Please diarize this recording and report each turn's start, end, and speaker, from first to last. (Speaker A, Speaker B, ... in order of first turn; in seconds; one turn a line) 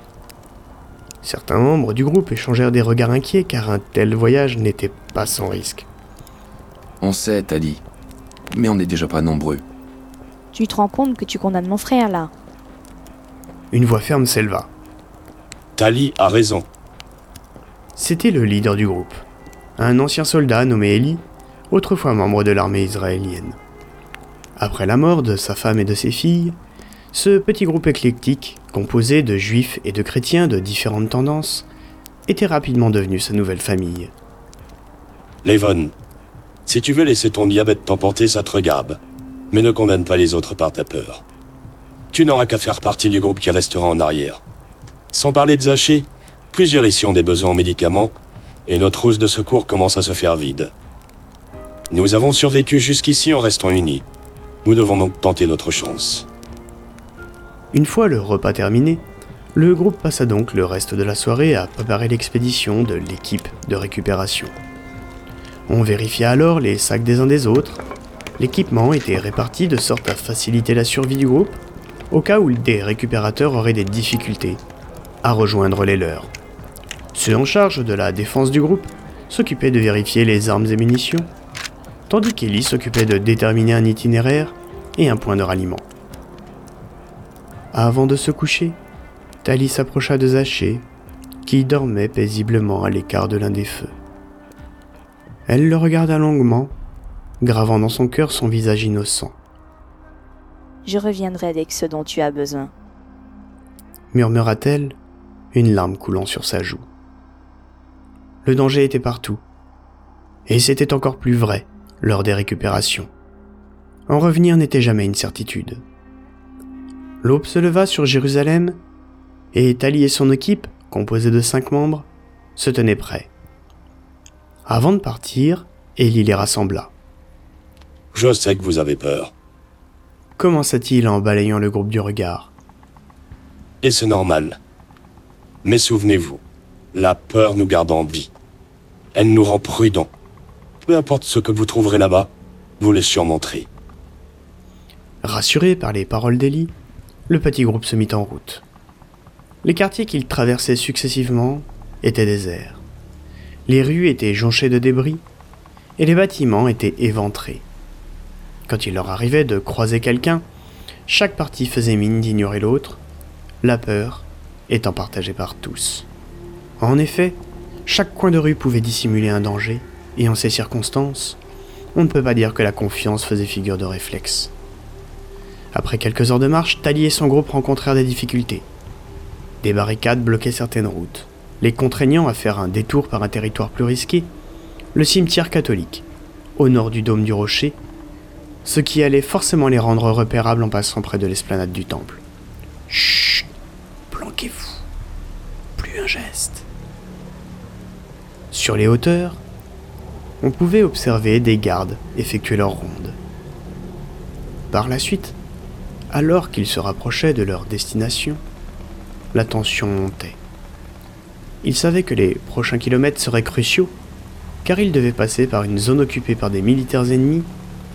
Speaker A: 1.2-5.9
Speaker B: 7.0-7.8
Speaker B: 8.5-9.6
Speaker C: 10.5-12.3
Speaker A: 13.7-14.7
Speaker D: 15.8-16.7
Speaker A: 18.0-19.2
Speaker A: 19.8-23.6
Speaker A: 24.6-26.6
Speaker A: 27.1-31.7
Speaker A: 32.3-34.1
Speaker D: 35.4-35.9
Speaker D: 36.6-39.0
Speaker D: 39.5-41.2
Speaker D: 42.1-44.4
Speaker D: 45.1-50.7
Speaker D: 51.9-54.0
Speaker D: 54.6-56.3
Speaker A: 57.7-64.5
Speaker A: 65.7-67.8
Speaker A: 68.4-71.6
Speaker A: 72.1-74.6
Speaker A: 75.2-76.3
Speaker A: 77.1-81.3
Speaker A: 82.1-85.9
Speaker A: 87.7-88.8
Speaker A: 89.4-90.9
Speaker A: 91.4-93.9
Speaker A: 95.5-96.7
Speaker A: 97.4-99.4
Speaker C: 100.8-102.7
Speaker A: 104.1-105.0
Speaker A: 105.5-106.9
Speaker A: 108.4-109.4
Speaker A: 110.5-113.1
Speaker A: 114.1-115.8
Speaker A: 117.2-118.8
Speaker A: 119.5-123.3
Speaker A: 124.7-126.9
Speaker D: 128.1-129.3
Speaker A: 130.4-132.5
Speaker D: 133.8-134.6
Speaker D: 135.6-136.4
Speaker D: 136.9-138.3
Speaker D: 139.1-140.1
Speaker D: 140.8-143.7
Speaker A: 145.2-146.8
Speaker A: 147.3-148.6
Speaker A: 149.6-152.8
Speaker A: 153.7-155.2
Speaker A: 156.0-157.7
Speaker A: 158.7-160.4
Speaker A: 161.1-163.0
Speaker A: 163.6-166.1
Speaker A: 166.8-171.4
Speaker A: 171.9-174.5
Speaker A: 175.7-178.7
Speaker A: 179.6-184.3
Speaker A: 184.9-186.1
Speaker A: 186.6-187.8
Speaker A: 188.6-192.2
Speaker A: 192.9-193.5
Speaker A: 194.1-194.8
Speaker A: 195.8-196.7
Speaker A: 198.5-199.4
Speaker A: 200.4-203.2
Speaker A: 204.7-205.4
Speaker A: 206.1-208.4
Speaker A: 209.3-210.4
Speaker A: 211.6-214.0
Speaker A: 214.6-217.5